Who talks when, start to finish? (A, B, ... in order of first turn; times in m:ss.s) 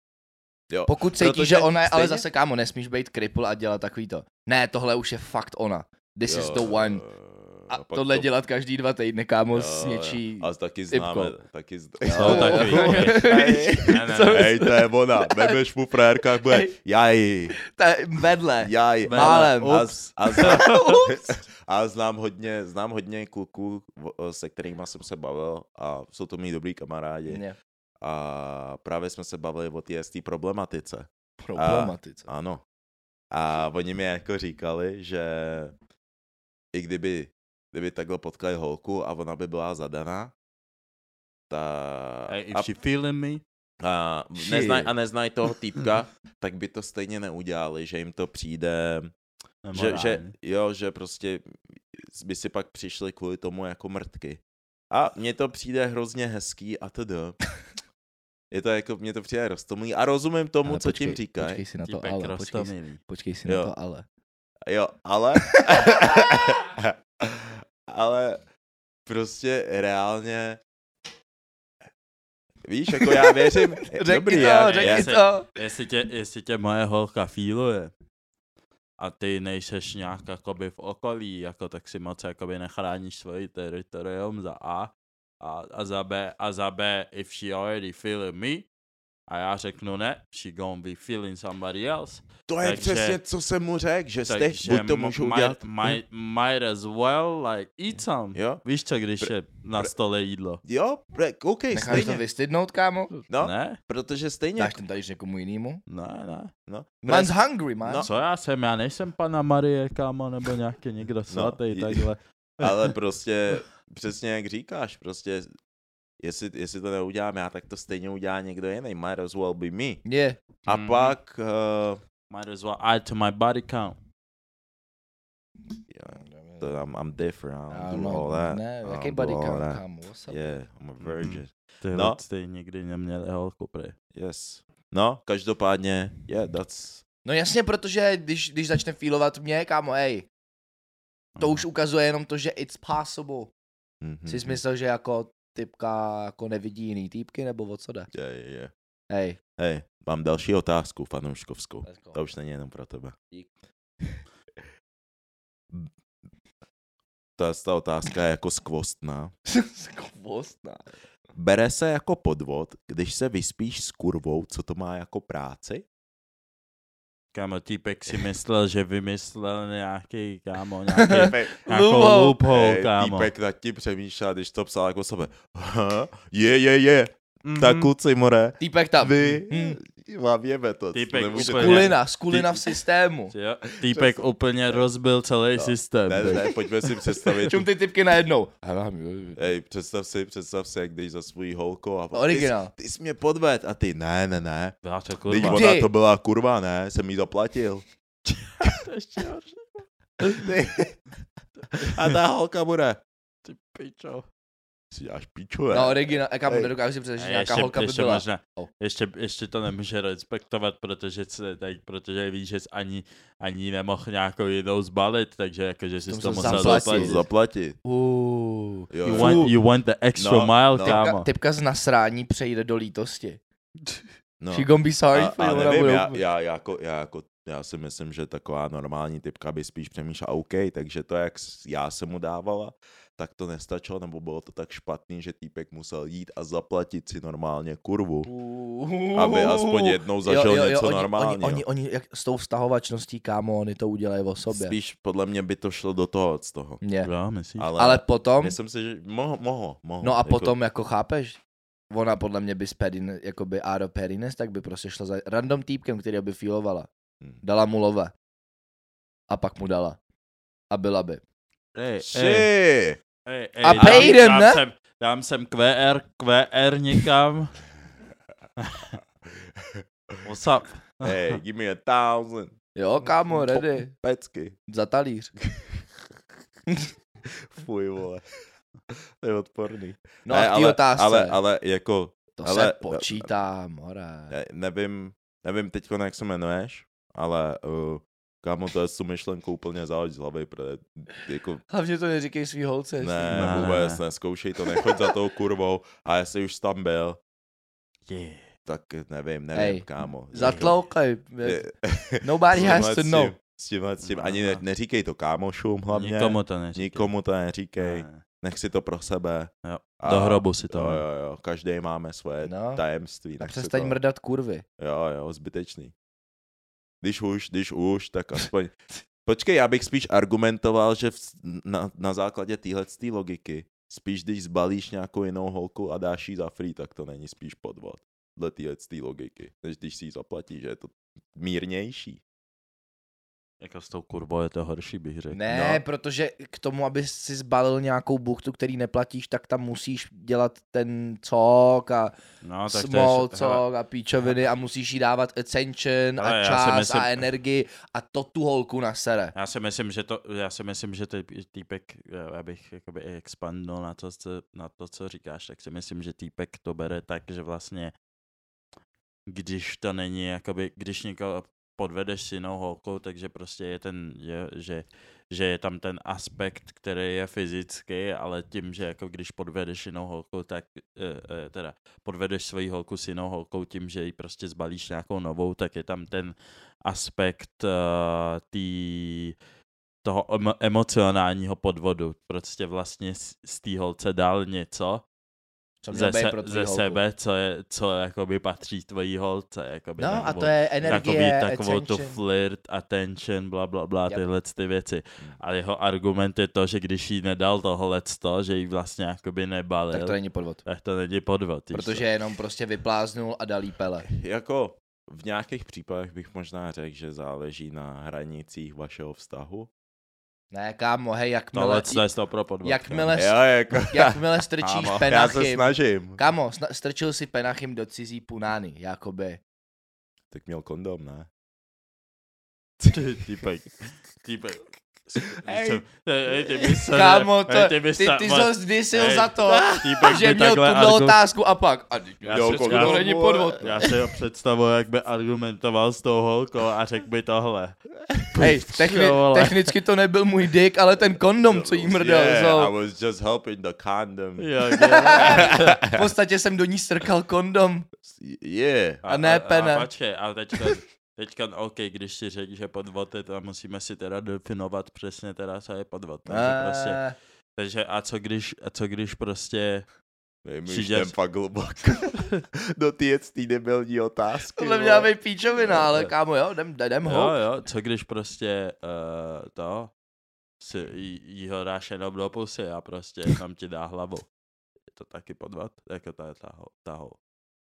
0:00.7-0:02.2 A
0:00.8-0:07.0 B
0:06.3-0:08.3 A
0:07.7-0:11.4 B
0:09.5-0:17.6 A
0:12.0-0:15.6 B
0:12.1-0:14.5 C
0:16.2-0:16.7 B
0:17.6-0:21.4 B
0:18.6-0:27.4 A
0:19.0-0:21.0 C
0:27.3-0:27.6 B
0:28.0-0:32.6 A
0:31.4-0:32.2 B
0:33.3-0:35.7 A
0:36.7-0:40.3 A
0:41.5-0:42.7 A
0:42.3-0:43.4 C
0:43.8-0:49.1 A
0:44.4-0:44.9 B
0:49.6-0:50.3 C
0:49.7-0:57.4 A
0:58.5-1:01.6 A
1:00.6-1:04.0 B
1:01.8-1:03.0 C
1:03.4-1:03.7 A
1:04.7-1:08.4 A
1:05.6-1:06.1 B
1:09.0-1:10.6 A
1:12.6-1:15.1 A
1:13.0-1:15.5 B
1:14.3-1:17.9 C
1:19.0-1:28.7 C
1:29.3-1:33.2 C
1:32.5-1:36.0 A
1:34.3-1:40.6 C
1:38.3-1:38.6 A
1:39.2-1:39.9 A
1:40.6-1:42.2 A
1:41.7-1:43.2 B
1:43.3-1:44.8 A
1:43.4-1:43.8 C
1:44.6-1:45.8 B
1:45.9-1:46.5 C
1:46.7-1:48.1 A
1:47.0-1:48.1 B
1:48.0-1:52.9 C
1:51.3-1:52.1 A
1:52.6-1:55.5 A
1:56.2-2:00.0 A
2:00.0-2:00.4 B
2:00.6-2:01.2 C
2:00.6-2:02.0 A
2:02.3-2:04.0 C
2:05.9-2:12.2 A
2:06.1-2:06.7 B
2:07.7-2:10.6 B
2:11.0-2:13.9 C
2:14.1-2:17.0 A
2:17.2-2:20.3 B
2:21.4-2:21.6 C
2:21.4-2:23.5 B
2:24.0-2:24.6 A
2:24.3-2:28.1 B
2:28.1-2:28.7 A
2:29.1-2:29.4 B
2:29.6-2:33.2 A
2:31.8-2:32.2 B
2:37.4-2:39.3 A
2:39.5-2:40.8 B
2:41.3-2:45.8 A
2:47.3-2:53.3 C
2:50.9-2:52.4 B
2:51.1-2:51.5 A
2:52.5-3:02.0 A
2:57.4-2:57.9 C
2:58.6-2:59.8 B
3:00.9-3:02.7 C
3:01.4-3:03.3 B
3:03.3-3:06.6 C
3:03.8-3:04.2 A
3:05.6-3:07.7 A
3:07.5-3:09.5 B
3:09.4-3:17.8 A
3:12.1-3:12.7 B
3:14.8-3:15.6 C
3:15.4-3:15.9 B
3:18.3-3:20.4 C
3:20.2-3:21.0 A
3:21.7-3:23.0 A
3:21.8-3:22.1 C
3:23.4-3:24.2 C
3:24.9-3:26.7 A
3:25.7-3:28.7 B
3:27.2-3:37.2 C
3:36.1-3:37.2 B
3:36.4-3:37.8 A
3:37.8-3:39.5 B
3:38.9-3:39.5 A
3:39.0-3:41.3 C
3:40.2-3:41.0 A
3:40.8-3:43.4 B
3:44.4-3:58.3 A
3:44.5-3:46.2 B
3:58.2-4:04.8 B
3:59.1-4:01.6 A
4:04.5-4:06.8 A
4:06.8-4:07.1 B
4:07.0-4:07.7 C
4:07.6-4:10.5 A
4:07.8-4:08.6 B
4:10.0-4:16.9 B
4:17.4-4:18.1 B
4:19.3-4:20.0 B
4:20.7-4:21.2 B
4:21.7-4:22.5 C
4:22.0-4:23.0 A
4:23.2-4:27.6 C
4:23.6-4:24.6 B
4:23.7-4:24.1 A
4:28.6-4:28.9 C
4:29.3-4:30.2 A
4:30.2-4:31.4 C
4:31.0-4:32.6 A
4:32.7-4:33.9 B
4:33.2-4:34.6 A
4:34.7-4:35.3 B
4:35.5-4:35.8 A
4:37.2-4:38.2 A
4:38.9-4:43.3 A
4:40.2-4:41.4 B
4:42.4-4:44.3 B
4:44.3-4:51.6 A
4:51.7-4:53.6 B
4:53.0-4:57.2 A
4:53.3-4:54.0 C
4:58.1-4:58.4 C
4:58.6-5:00.8 A
4:59.5-5:01.7 B
5:01.4-5:14.0 A
5:02.2-5:03.3 B
5:04.0-5:04.6 C
5:05.9-5:07.1 C
5:07.8-5:08.2 C
5:09.6-5:11.0 C
5:12.4-5:12.8 B
5:13.4-5:14.6 B
5:14.8-5:15.9 A
5:17.0-5:32.2 A
5:33.6-5:35.4 C
5:35.3-5:42.1 B
5:35.5-5:35.8 A
5:42.4-5:43.6 C
5:42.7-5:49.3 B
5:46.2-5:47.2 C
5:49.3-5:57.9 C
5:59.3-6:19.3 C
6:20.0-6:25.0 C
6:25.8-6:27.0 B
6:25.9-6:42.1 C
6:30.0-6:32.2 B
6:30.0-6:31.1 A
6:39.9-6:40.6 B
6:41.7-6:44.1 B
6:44.1-6:49.7 A
6:50.5-6:52.0 B
6:51.5-6:53.1 C
6:52.6-6:59.4 B
6:53.1-6:54.2 A
6:54.6-6:55.1 C
6:55.1-6:56.2 A
7:00.3-7:01.3 A
7:02.9-7:11.2 C
7:05.3-7:05.8 A
7:06.9-7:13.9 B
7:12.2-7:17.9 C
7:12.3-7:13.9 A
7:18.3-7:18.5 A
7:18.3-7:22.7 B
7:18.7-7:19.8 C
7:21.4-7:26.0 A
7:24.4-7:25.8 C
7:24.7-7:27.9 B
7:28.1-7:29.0 A
7:29.0-7:37.0 C
7:29.0-7:29.9 B
7:36.3-7:37.2 B
7:37.6-7:39.8 C
7:40.4-7:46.1 A
7:40.6-7:41.2 C
7:44.5-7:47.4 B
7:47.0-7:49.9 C
7:50.6-7:54.3 C
7:54.9-7:57.2 C